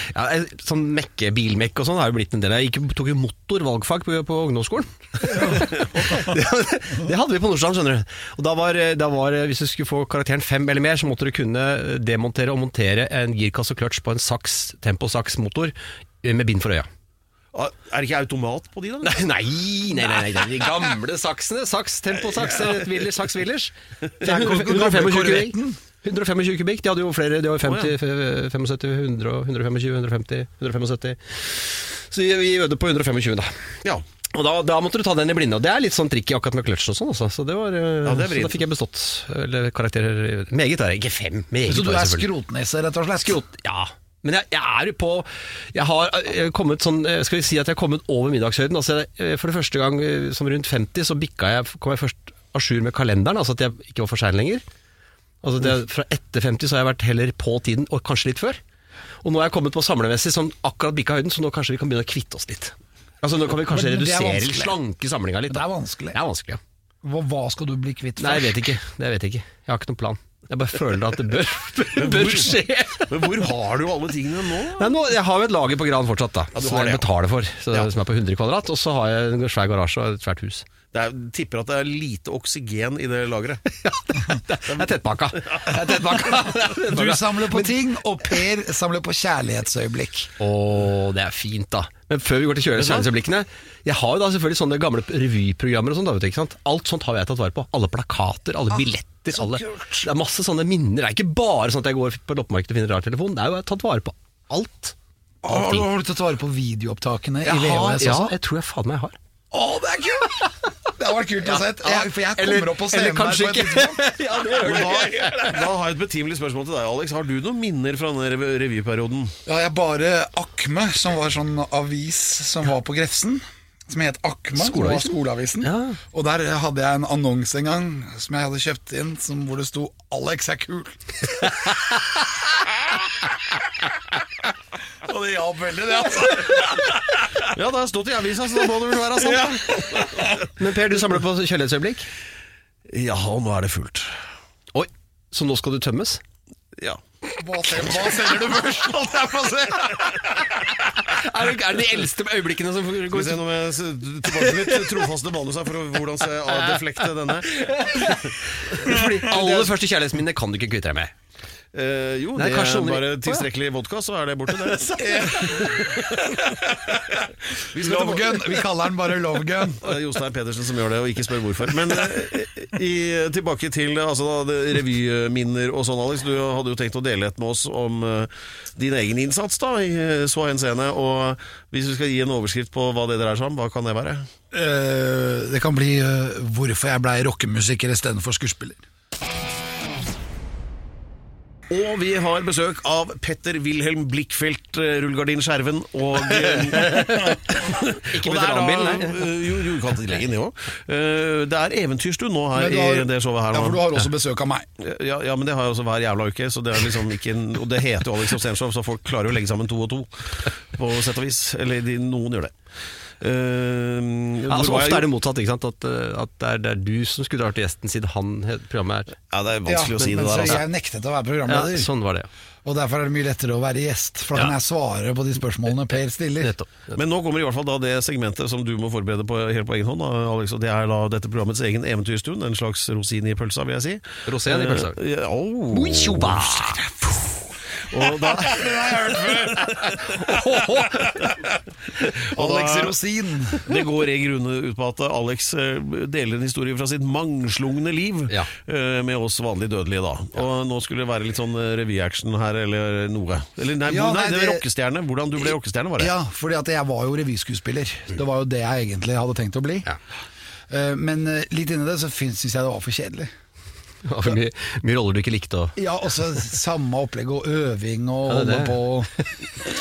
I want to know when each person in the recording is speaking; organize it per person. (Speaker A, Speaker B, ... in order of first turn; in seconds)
Speaker A: 0.1-16.9, 19.0-33.6, 34.3-42.3, 43.2-54.6, 55.4-58.6, 59.2-66.6, 68.2-73.2, 74.8-80.7, 83.7-87.8, 90.4-105.0, 105.5-105.8, 107.4-109.2, 111.4-115.6, 124.6-126.0, 140.5-142.1, 144.7-146.2, 151.1-153.4, 154.3-155.0, 157.5-161.1, 162.4-163.5, 196.8-197.4, 198.0-199.3, 214.5-219.2, 221.5-222.3, 226.4-226.9, 234.3-235.0, 235.7-237.3, 240.0-241.2, 264.0-265.8, 268.3-268.8
Speaker B: 17.5-19.2, 22.4-22.9, 27.6-27.9, 38.0-38.6, 72.0-72.6, 73.1-74.9, 76.5-77.1, 80.9-83.6, 85.4-85.7, 92.8-93.1, 114.6-119.3, 137.4-140.4, 142.9-144.1, 153.1-158.3, 161.7-166.9, 167.7-168.6, 169.7-184.3, 191.7-203.8, 204.8-212.5, 213.2-215.1, 219.3-220.6, 227.0-236.8, 237.9-240.0, 242.1-243.0, 243.6-256.1
Speaker C: 24.2-25.8, 41.7-43.4, 63.6-64.8, 65.5-66.2, 67.0-68.6, 85.7-90.3, 99.3-100.1, 105.4-108.4, 109.5-115.5, 119.5-131.1, 135.0-137.3, 139.2-140.3, 147.4-150.6, 158.9-159.6, 165.2-165.8, 166.7-167.0, 167.7-169.8, 184.5-188.8, 202.5-204.7, 219.7-221.9, 222.6-226.5, 238.3-241.3, 242.3-243.7, 253.9-254.7, 255.5-259.9, 260.7-263.3, 265.8-269.1